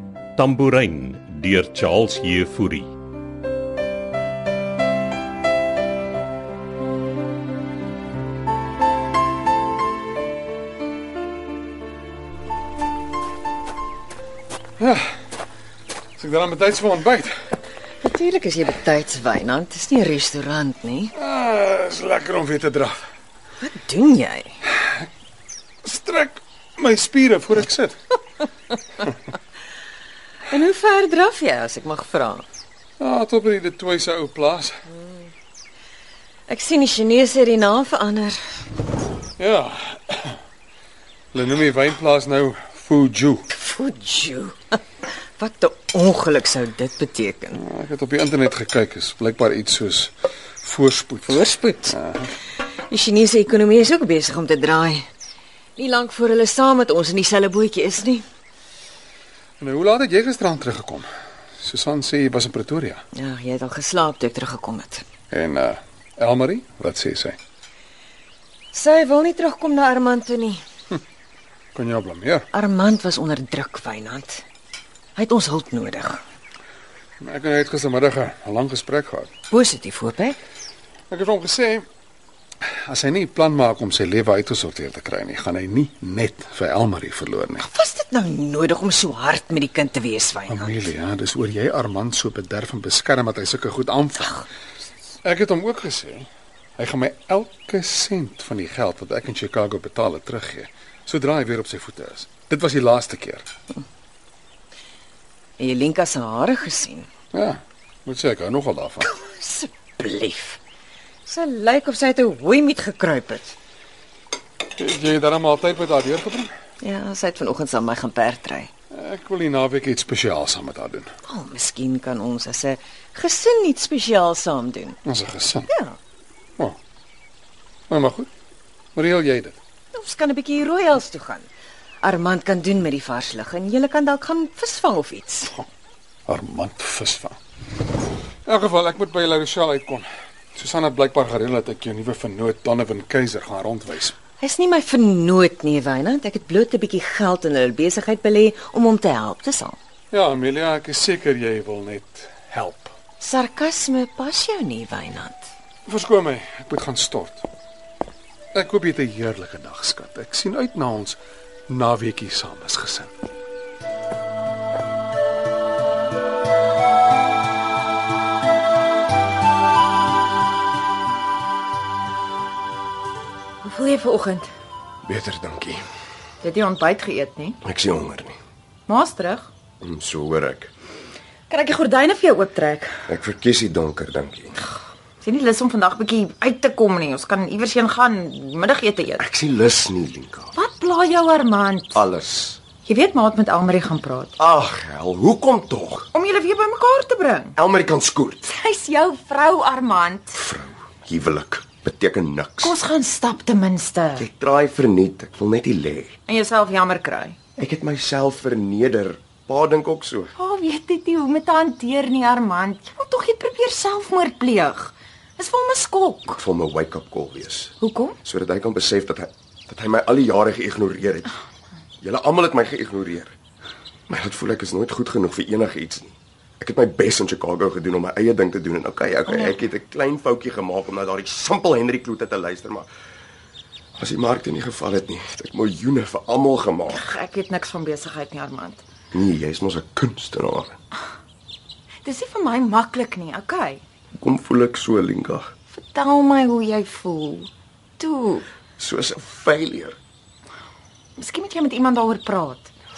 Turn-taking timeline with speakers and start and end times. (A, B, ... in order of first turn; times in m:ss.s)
0:00.4-0:03.0 A
0:14.8-0:15.1 B
0:16.2-0:17.3 B
0:18.0-0:21.1 C
0:21.2-0:23.0 B
0:23.6-0:24.6 C
0:25.8-0:28.0 B
0:30.5-0:32.4 C
0:33.0-0:34.8 B
0:34.9-0:35.3 C
0:36.5-0:38.4 C
0:39.4-0:40.4 B
0:41.3-0:43.5 B
0:43.5-0:47.6 C
0:47.5-0:52.3 B
0:51.3-0:52.0 C
0:52.9-0:55.1 C
0:55.8-0:58.2 C
0:59.6-1:01.1 B
1:01.6-1:03.0 B
1:03.2-1:05.0 C
1:05.3-1:07.4 B
1:08.7-1:10.6 C
1:11.7-1:12.5 B
1:12.5-1:14.4 C
1:15.2-1:16.2 C
1:17.2-1:19.3 B
1:19.5-1:20.4 C
1:21.1-1:21.8 B
1:22.9-1:27.7 B
1:27.6-1:30.9 C
1:30.5-1:34.4 B
1:35.2-1:43.5 B
1:45.6-1:47.1 C
1:47.3-1:49.1 B
1:49.0-1:50.6 C
1:51.3-1:53.6 C
1:54.8-1:56.5 B
1:56.8-1:58.7 C
1:58.9-2:01.1 B
2:01.3-2:05.0 C
2:05.0-2:05.7 B
2:05.7-2:06.0 C
2:07.9-2:08.3 B
2:09.0-2:09.6 B
2:09.9-2:11.5 C
2:12.0-2:15.6 C
2:16.3-2:17.4 B
2:18.5-2:24.2 B
2:24.4-2:29.8 C
2:30.1-2:32.9 B
2:33.2-2:35.5 C
2:35.9-2:37.4 B
2:38.5-2:43.1 B
2:53.7-2:54.5 D
2:55.0-2:55.8 E
2:56.4-2:57.6 D
2:57.6-2:58.4 E
2:58.9-2:59.5 D
2:59.8-3:00.7 E
3:01.5-3:03.0 D
3:03.1-3:04.6 E
3:05.2-3:09.2 D
3:09.2-3:10.5 E
3:10.6-3:12.0 D
3:11.9-3:12.6 E
3:12.9-3:14.3 D
3:14.4-3:16.1 E
3:16.1-3:17.6 D
3:17.6-3:18.5 E
3:18.5-3:20.4 D
3:20.4-3:22.8 E
3:22.6-3:24.3 D
3:24.2-3:26.2 E
3:26.3-3:27.4 D
3:27.6-3:30.3 E
3:30.4-3:36.4 D
3:36.3-3:41.3 E
3:37.8-3:38.2 D
3:42.0-3:43.3 E
3:44.1-3:52.9 E
3:54.0-3:57.1 E
3:56.9-3:58.8 D
3:59.1-4:00.8 E
4:02.0-4:03.8 D
4:04.2-4:05.5 E
4:05.8-4:07.5 D
4:08.0-4:08.4 C
4:08.8-4:10.0 E
4:11.2-4:12.7 D